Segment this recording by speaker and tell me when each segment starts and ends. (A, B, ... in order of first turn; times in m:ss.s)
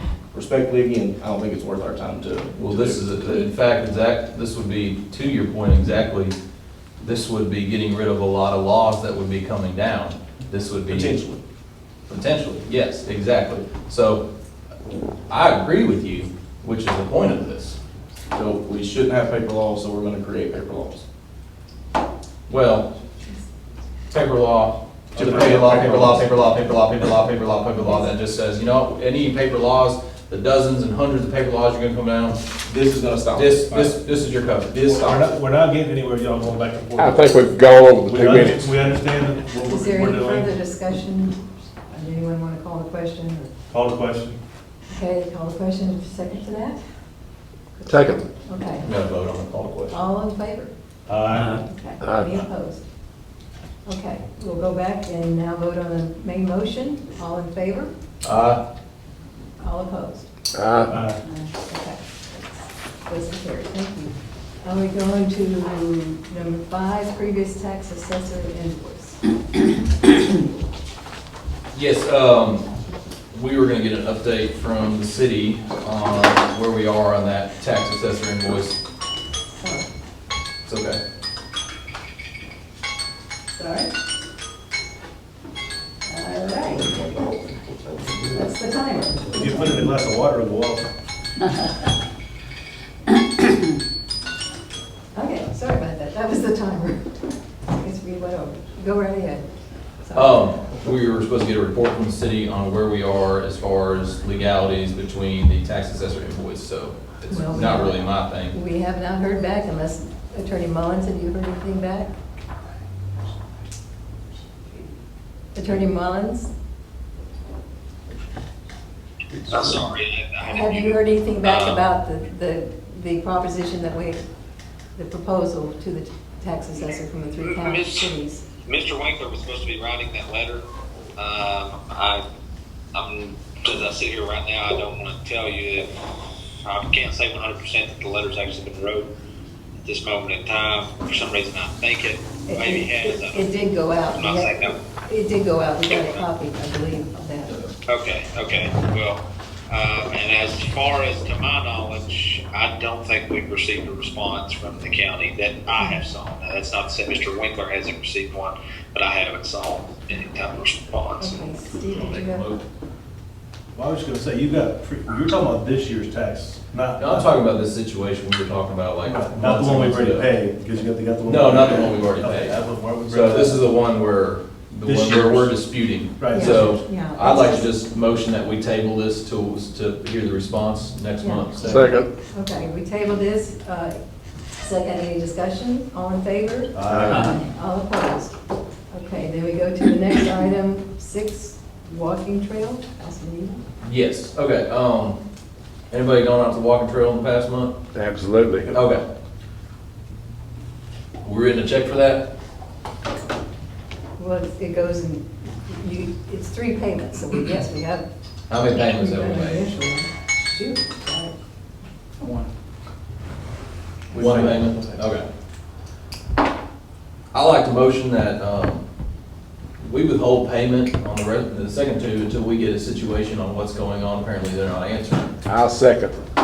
0:00.3-0:03.4 A
0:02.6-0:06.4 B
0:07.0-0:11.2 B
0:10.9-0:11.4 A
0:12.1-0:14.2 B
0:15.3-0:17.8 B
0:18.3-0:21.0 A
0:22.5-0:22.9 B
0:24.1-0:32.4 B
0:25.1-0:26.1 C
0:25.2-0:26.3 A
0:32.6-0:33.9 A
0:33.3-0:35.0 B
0:34.7-0:35.3 A
0:34.9-0:37.4 C
0:37.0-0:38.6 D
0:38.0-0:40.6 C
0:39.6-0:43.5 E
0:43.7-0:44.4 C
0:44.9-0:46.8 E
0:47.8-0:48.8 E
0:47.9-0:48.2 D
0:48.8-0:50.0 B
0:49.9-0:50.7 E
0:51.1-0:51.6 C
0:51.5-0:52.8 E
0:53.8-0:57.9 E
0:58.2-0:58.6 B
0:59.6-1:00.2 E
1:00.9-1:01.2 C
1:01.2-1:09.2 E
1:11.7-1:12.7 B
1:13.3-1:18.8 B
1:19.4-1:19.9 E
1:20.6-1:21.0 B
1:23.5-1:23.9 E
1:26.0-1:27.4 E
1:28.0-1:29.8 E
1:29.4-1:30.9 C
1:35.1-1:39.5 E
1:40.0-1:40.4 E
1:40.1-1:48.5 B
1:47.3-1:52.1 E
1:55.5-1:56.5 E
1:59.5-2:01.8 F
2:00.4-2:04.2 E
2:05.0-2:08.4 E
2:07.4-2:08.1 F
2:08.6-2:10.6 F
2:11.2-2:12.2 F
2:12.9-2:15.9 F
2:16.6-2:19.1 F
2:19.8-2:23.5 F
2:22.5-2:27.6 E
2:24.1-2:24.8 F
2:25.9-2:26.2 F
2:27.9-2:41.4 F
2:41.2-2:42.6 E
2:41.9-2:42.6 B
2:43.7-2:47.3 C
2:47.0-2:50.3 B
2:49.0-2:53.6 C
2:51.2-2:52.6 B
2:53.1-3:02.0 B
2:54.8-2:55.6 C
2:56.2-2:56.8 C
2:56.3-2:57.7 E
3:01.2-3:01.6 E
3:01.7-3:02.0 D
3:02.3-3:04.0 E
3:04.6-3:08.3 E
3:06.7-3:07.2 C
3:07.0-3:07.3 D
3:08.9-3:13.6 E
3:13.8-3:15.2 B
3:15.9-3:17.8 B
3:17.9-3:18.7 D
3:18.7-3:19.0 B
3:21.2-3:22.3 B
3:24.2-3:28.1 E
3:28.5-3:29.6 B
3:28.7-3:31.3 E
3:34.1-3:35.0 C
3:34.1-3:35.3 B
3:37.3-3:38.8 B
3:39.8-3:45.3 B
3:45.5-3:46.2 D